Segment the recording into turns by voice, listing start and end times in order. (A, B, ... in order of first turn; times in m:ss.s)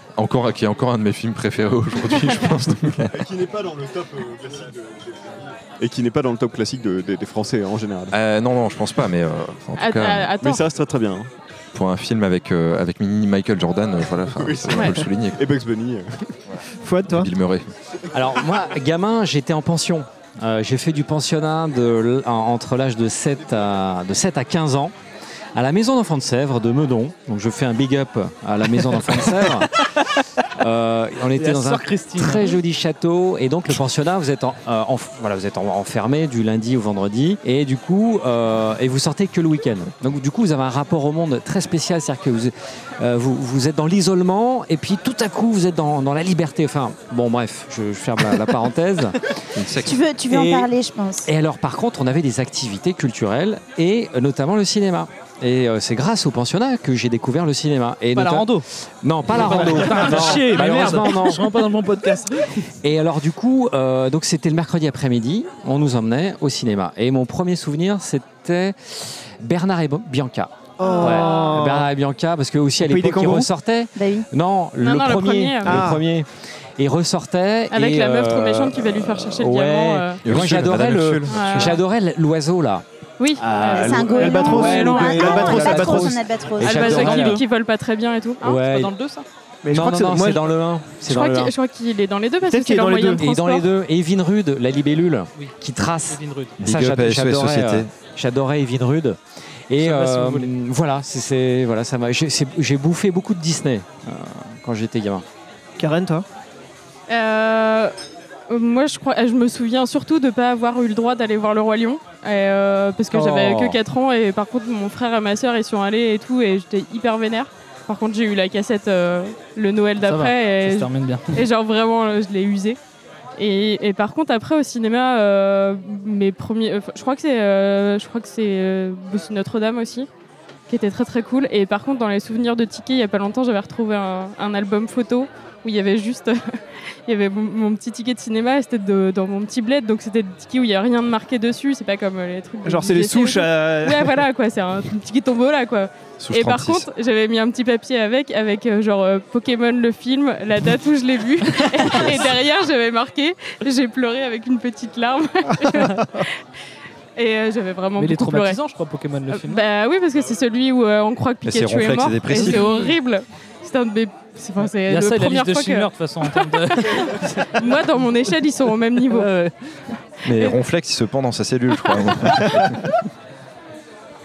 0:00.2-0:03.2 A
0:03.1-0:08.1 B
0:08.1-0:10.3 A
0:09.8-0:10.6 C
0:10.4-0:11.3 B
0:11.7-0:15.4 A
0:14.4-0:16.3 B
0:16.5-0:17.7 A
0:16.8-0:17.3 D
0:18.1-0:24.9 E
0:25.6-0:29.8 E
0:30.4-0:49.4 E
0:31.4-0:32.6 F
0:49.5-0:50.0 A
0:49.8-0:51.3 G
0:50.3-0:50.7 E
0:51.2-1:01.5 E
0:58.1-0:58.7 F
0:59.3-1:02.6 F
1:02.8-1:16.2 E
1:10.8-1:11.9 D
1:10.8-1:11.6 C
1:12.8-1:13.5 D
1:13.9-1:14.2 G
1:14.8-1:15.9 C
1:15.6-1:16.0 D
1:16.8-1:22.8 E
1:17.7-1:20.2 C
1:20.2-1:21.8 A
1:21.2-1:21.8 C
1:23.2-1:25.1 C
1:23.4-1:27.4 E
1:23.7-1:27.3 G
1:24.1-1:26.2 D
1:25.1-1:25.5 B
1:26.6-1:28.6 C
1:28.4-1:28.9 E
1:28.6-1:29.2 F
1:29.6-1:30.6 D
1:29.7-1:31.5 E
1:31.0-1:33.7 C
1:32.5-1:33.2 D
1:33.2-1:39.2 E
1:36.1-1:36.6 F
1:36.6-1:37.9 A
1:39.7-1:45.2 E
1:39.8-1:40.5 F
1:45.8-1:46.2 D
1:47.1-1:47.9 C
1:48.5-2:02.8 C
1:53.1-1:53.7 E
1:53.3-1:53.7 F
2:00.0-2:01.4 F
2:03.4-2:10.1 C
2:10.7-2:36.3 C
2:22.6-2:24.2 D
2:26.2-2:26.9 A
2:35.6-2:36.0 F
2:37.2-2:38.6 C
2:38.0-2:39.6 F
2:39.3-2:49.3 C
2:41.4-2:42.6 A
2:42.3-2:43.0 F
2:44.9-2:48.4 F
2:49.0-2:49.5 F
2:50.2-2:52.9 A
2:50.2-2:50.6 C